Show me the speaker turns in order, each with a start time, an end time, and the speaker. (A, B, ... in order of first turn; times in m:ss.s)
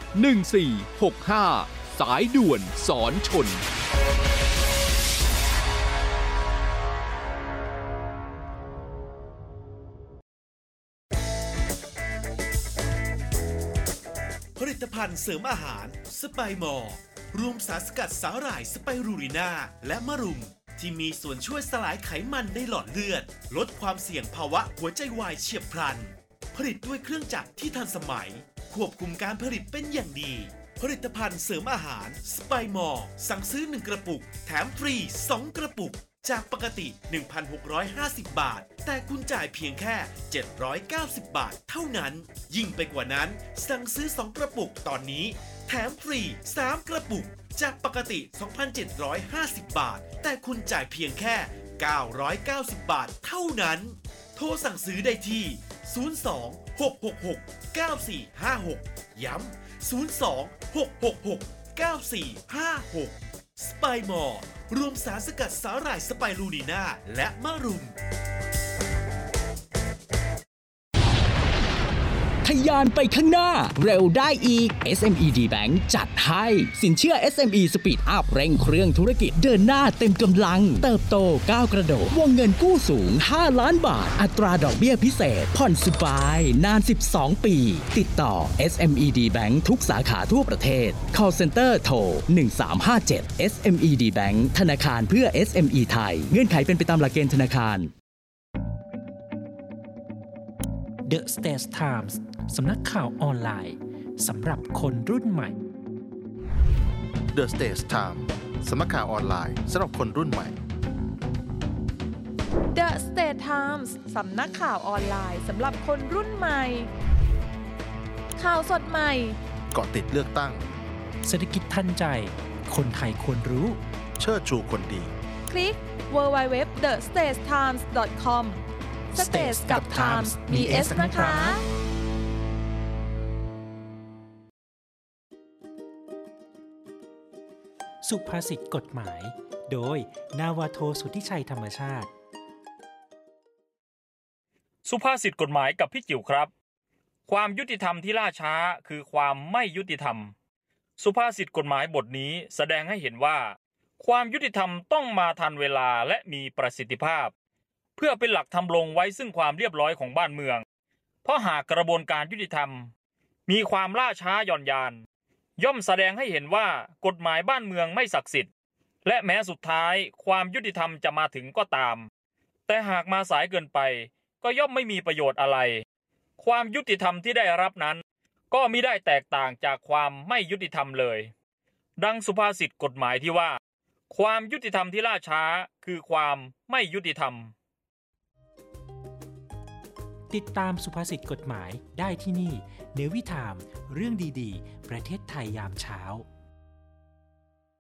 0:00.1-0:03.6 A
0:14.6-1:08.0 B
1:12.4-1:37.9 C
1:41.1-1:45.6 D
1:47.3-1:50.6 E
1:52.7-1:56.9 F
1:58.4-1:59.4 F
1:59.7-2:00.7 E
2:01.2-2:03.8 D
2:04.2-2:05.1 E
2:05.5-2:08.6 F
2:09.1-2:11.6 F
2:09.2-2:11.6 D
2:18.0-2:22.1 D
2:24.8-2:26.5 G
2:27.3-2:30.3 G
2:31.0-2:37.3 G
2:38.0-2:40.6 G
2:41.2-2:42.9 G
2:43.5-2:45.0 G
2:45.6-2:48.5 G
2:49.0-2:52.1 G
2:52.7-2:55.8 G
2:56.4-3:01.3 G
3:02.0-3:03.6 G
3:04.1-3:07.5 G
3:10.3-3:16.2 D